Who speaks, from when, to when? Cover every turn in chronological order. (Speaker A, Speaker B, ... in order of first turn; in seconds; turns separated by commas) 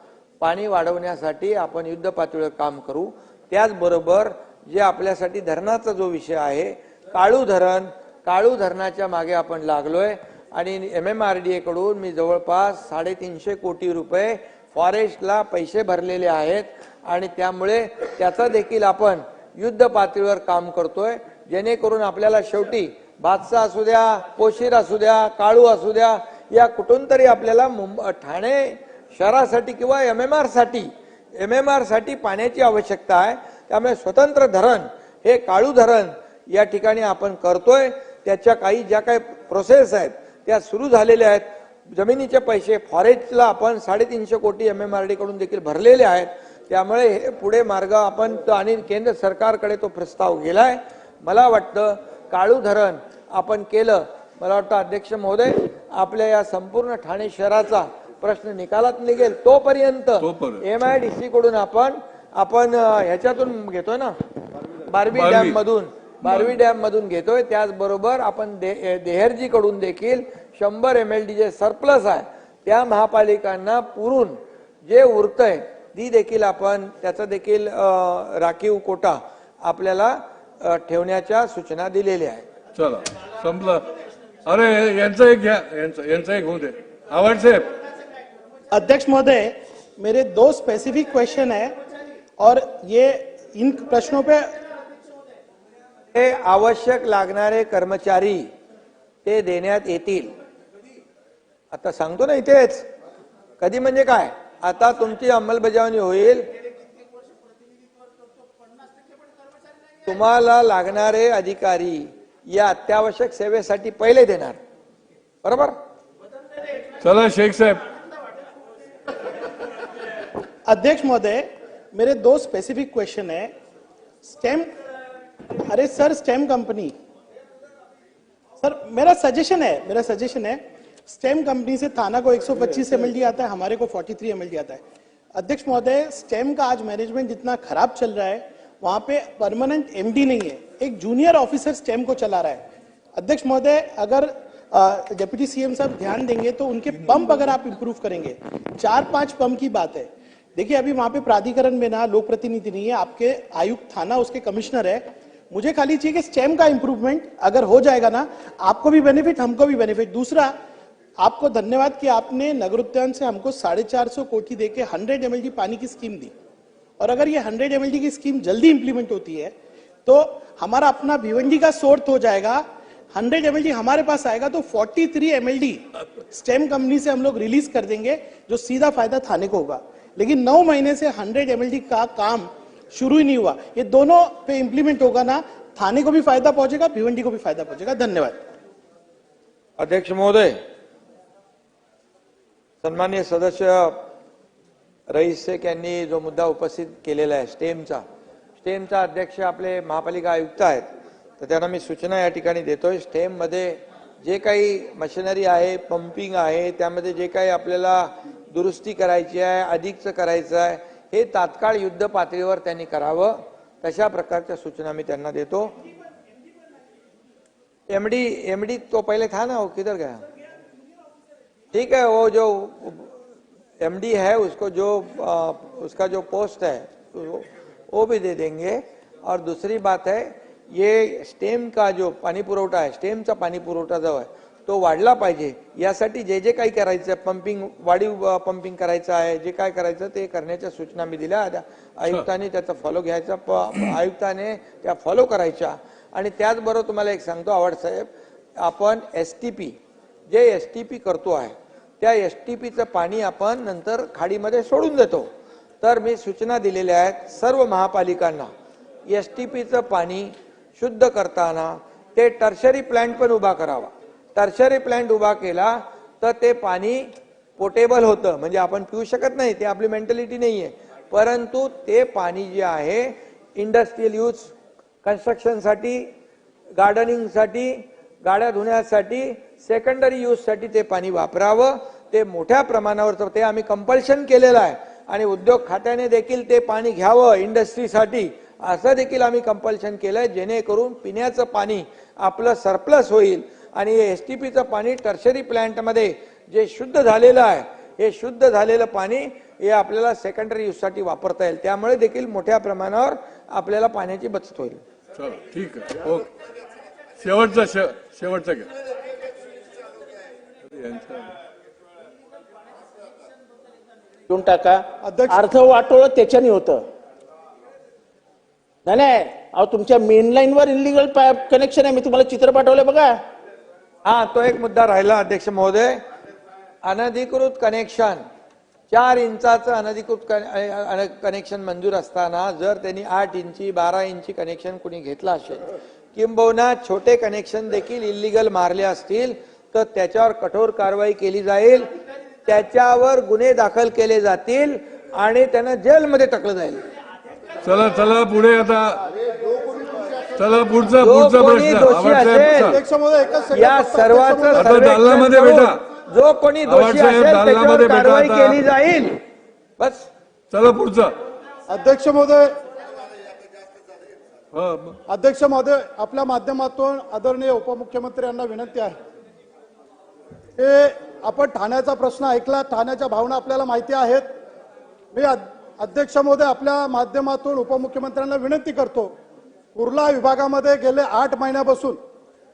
Speaker A: 0.4-64.2, Speaker B: 60.2-60.6, Speaker A: 64.9-82.5, Speaker B: 65.1-65.6, Speaker B: 66.3-66.6, Speaker B: 82.8-83.8, Speaker B: 84.5-87.7, Speaker C: 88.7-91.8, Speaker C: 92.4-94.5, Speaker A: 96.1-98.5, Speaker A: 99.2-100.3, Speaker A: 101.7-102.9, Speaker A: 103.6-106.5, Speaker A: 110.0-114.6, Speaker A: 115.4-115.7, Speaker B: 117.0-117.8, Speaker C: 120.7-123.5, Speaker C: 124.2-124.7, Speaker C: 125.6-127.0, Speaker C: 128.6-134.8, Speaker C: 135.3-160.6, Speaker C: 161.2-166.3, Speaker C: 167.0-169.6, Speaker C: 170.1-188.4, Speaker A: 189.8-190.6, Speaker A: 192.8-194.0, Speaker A: 195.1-198.0, Speaker A: 198.6-200.9, Speaker A: 201.4-215.7, Speaker A: 217.9-220.2, Speaker A: 221.7-223.1, Speaker A: 223.8-248.1, Speaker A: 248.6-249.8, Speaker A: 250.3-255.3, Speaker A: 255.8-258.5, Speaker A: 259.1-267.1, Speaker A: 267.6-274.5, Speaker A: 275.0-276.1, Speaker A: 276.8-304.8, Speaker B: 305.1-306.3, Speaker B: 307.2-308.7, Speaker B: 310.7-311.3, Speaker D: 314.3-316.8, Speaker E: 315.0-315.4, Speaker D: 318.9-323.2, Speaker A: 324.1-326.0, Speaker A: 326.8-328.2, Speaker A: 328.9-341.9, Speaker A: 342.5-346.8, Speaker B: 347.6-349.0, Speaker B: 350.4-352.8, Speaker A: 351.0-352.8, Speaker E: 352.6-354.8, Speaker A: 353.5-359.1, Speaker B: 354.5-355.8, Speaker B: 356.6-358.6, Speaker A: 359.8-360.1, Speaker B: 360.5-361.1, Speaker E: 361.7-362.5, Speaker B: 364.5-365.0, Speaker E: 365.1-368.9, Speaker E: 370.6-374.3, Speaker E: 375.1-379.1, Speaker E: 379.8-382.0